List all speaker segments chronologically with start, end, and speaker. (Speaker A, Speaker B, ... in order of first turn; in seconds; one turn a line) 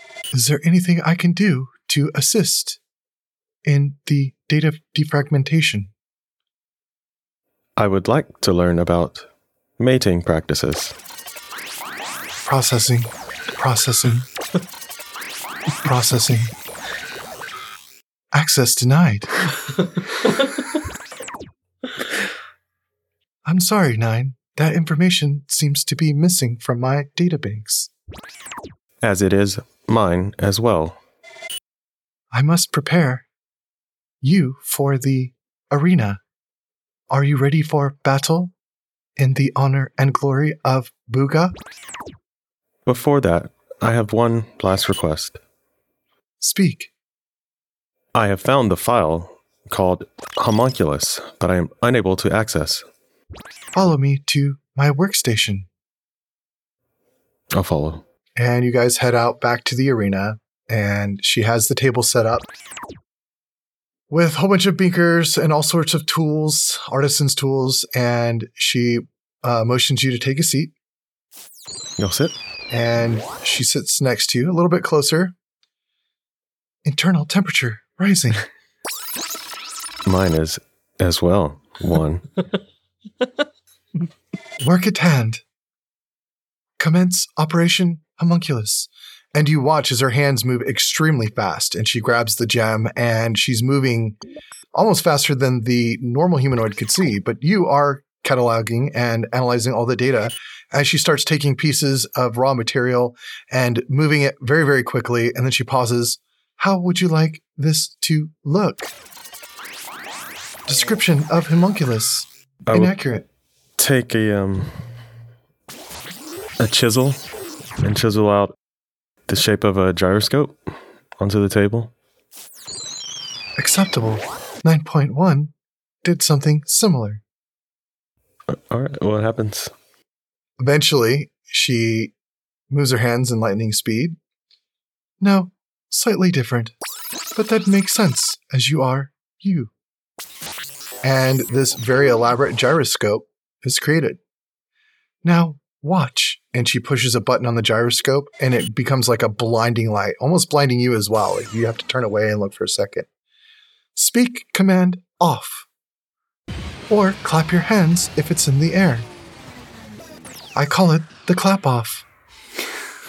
Speaker A: 0.3-2.8
Speaker A: 3.6-5.9
Speaker B: 7.8-9.3
Speaker B: 9.8-10.9
Speaker A: 12.4-14.3
Speaker A: 15.8-16.5
Speaker A: 18.3-19.3
Speaker A: 23.4-27.9
Speaker B: 29.0-31.0
Speaker A: 32.3-33.2
Speaker A: 34.2-36.2
Speaker A: 37.1-38.5
Speaker A: 39.2-41.6
Speaker B: 42.9-45.4
Speaker A: 46.4-46.9
Speaker B: 48.1-52.8
Speaker A: 53.8-55.7
Speaker B: 57.5-58.0
Speaker A: 58.4-62.5
Speaker A: 64.1-70.7
Speaker B: 72.0-72.3
Speaker A: 72.7-75.3
Speaker A: 76.8-78.5
Speaker B: 80.0-82.3
Speaker A: 84.6-85.4
Speaker A: 86.8-94.2
Speaker A: 94.7-108.9
Speaker A: 110.7-113.3
Speaker B: 112.7-113.0
Speaker B: 113.8-114.8
Speaker B: 116.6-117.2
Speaker B: 117.8-118.5
Speaker B: 119.3-120.6
Speaker B: 121.2-121.9
Speaker A: 123.6-125.5
Speaker A: 126.0-127.2
Speaker B: 128.5-129.7
Speaker A: 130.6-132.1
Speaker A: 132.7-134.2
Speaker A: 135.2-136.7
Speaker A: 137.3-139.7
Speaker A: 141.0-144.2
Speaker A: 145.2-153.1
Speaker A: 153.9-155.7
Speaker A: 156.9-159.1
Speaker A: 160.5-162.0